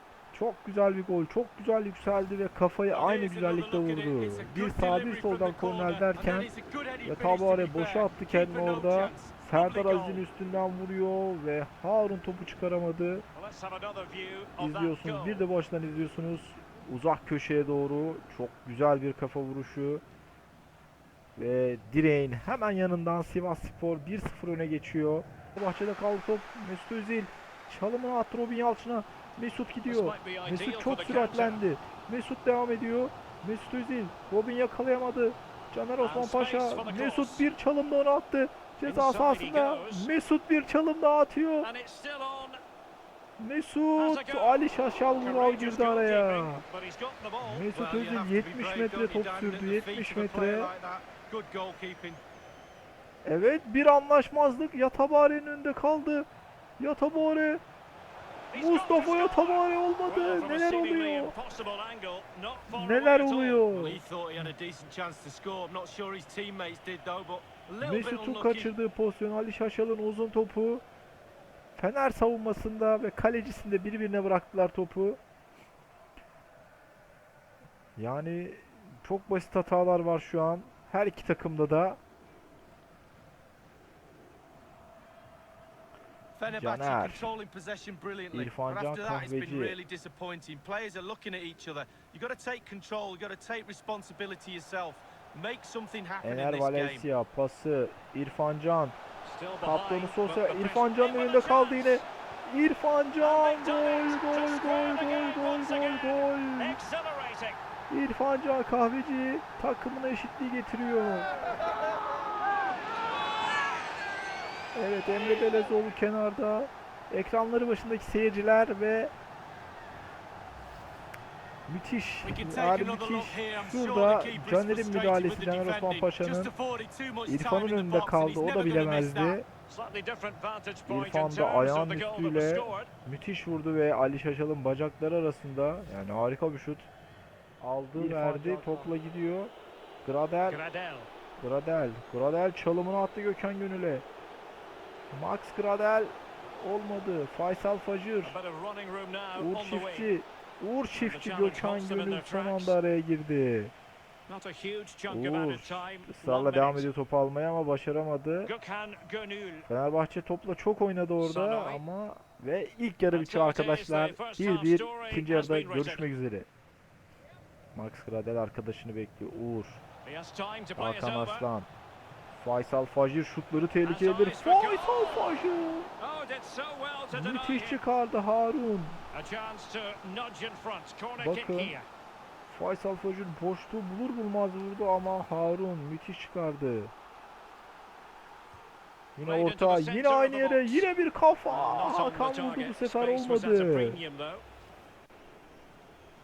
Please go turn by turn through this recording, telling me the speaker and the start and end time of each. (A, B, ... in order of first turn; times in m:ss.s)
0:00.3-0:06.5 A
0:02.9-0:10.3 B
0:07.0-0:13.2 A
0:13.3-0:15.4 C
0:14.6-0:20.0 A
0:21.4-0:41.7 A
0:29.9-0:31.6 C
0:36.0-0:37.5 C
0:38.8-0:40.1 C
0:41.6-0:42.6 C
0:43.4-0:46.6 A
0:44.0-0:47.7 C
0:47.4-0:50.7 A
0:47.7-0:52.2 B
0:53.2-0:56.3 A
0:56.8-0:57.6 A
0:58.5-1:03.7 C
0:58.5-1:01.4 A
1:02.7-1:04.0 A
1:03.7-1:08.7 B
1:07.8-1:10.8 A
1:11.8-1:15.2 A
1:18.0-1:22.0 A
1:26.4-1:37.1 B
1:26.5-1:27.3 A
1:28.3-1:29.8 A
1:36.2-1:39.0 A
1:39.2-1:42.0 C
1:39.6-1:46.8 A
1:43.2-1:47.6 C
1:47.9-1:51.4 A
1:54.7-1:59.1 A
2:01.7-2:06.5 A
2:02.2-2:09.4 B
2:07.3-2:09.4 A
2:09.7-2:12.9 C
2:10.9-2:16.9 A
2:17.6-2:19.5 A
2:18.0-2:18.9 C
2:20.0-2:20.6 A
2:20.4-2:21.1 C
2:21.4-2:24.1 A
2:25.1-2:28.4 A
2:28.2-2:30.1 C
2:29.4-2:33.7 A
2:31.0-2:32.8 C
2:34.3-2:36.9 C
2:35.1-2:38.5 A
2:38.4-2:39.7 C
2:39.7-2:46.5 A
2:41.2-2:41.8 C
2:43.1-2:46.1 C
2:47.7-2:49.8 A
2:50.0-2:51.5 C
2:50.8-2:51.7 A
2:52.3-2:55.9 A
2:53.8-2:55.4 C
2:56.0-2:57.8 C
2:57.1-2:59.0 A
2:59.1-3:01.9 C
3:01.2-3:01.8 A
3:02.5-3:06.9 A
3:09.2-3:14.0 A
3:09.2-3:10.9 C
3:11.5-3:14.4 C